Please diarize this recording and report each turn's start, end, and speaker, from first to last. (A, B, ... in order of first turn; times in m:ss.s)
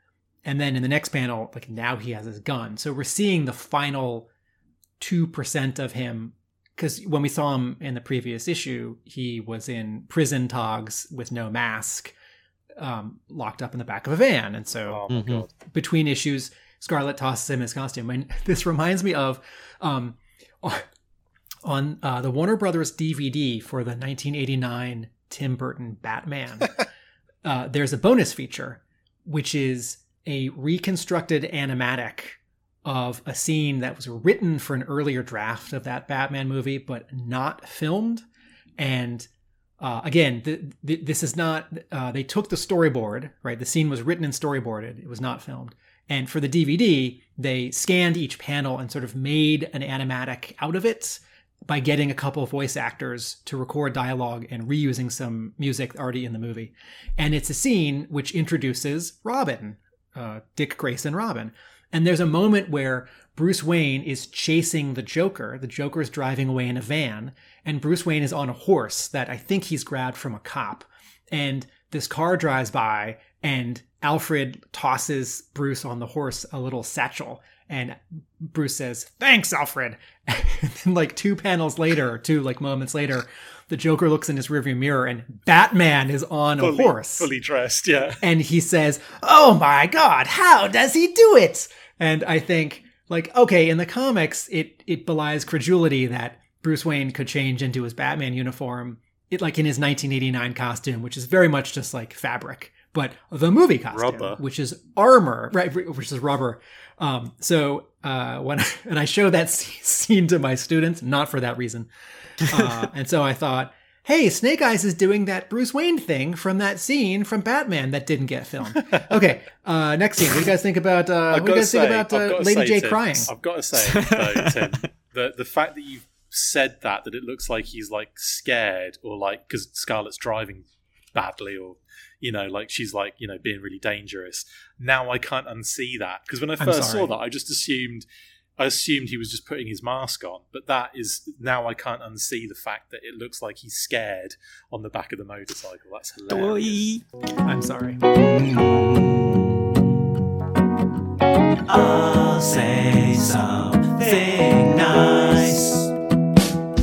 0:00.4-0:04.3 A
0:05.0-0:12.1 A
0:12.8-0:15.0 A
0:14.9-0:15.5 B
0:15.1-0:15.5 C
0:15.6-0:20.9 A
0:21.6-0:26.8 A
0:27.4-0:38.2 A
0:38.8-0:39.3 A
0:39.8-1:27.3 A
1:26.6-1:28.2 B
1:28.2-1:51.9 A
1:43.9-1:44.4 B
1:52.4-2:03.3 A
2:01.3-2:18.1 B
2:03.8-2:04.8 C
2:16.6-2:17.1 A
2:18.6-2:26.8 B
2:26.3-2:27.0 C
2:27.4-2:28.0 A
2:28.0-2:30.3 C
2:31.7-2:35.9 C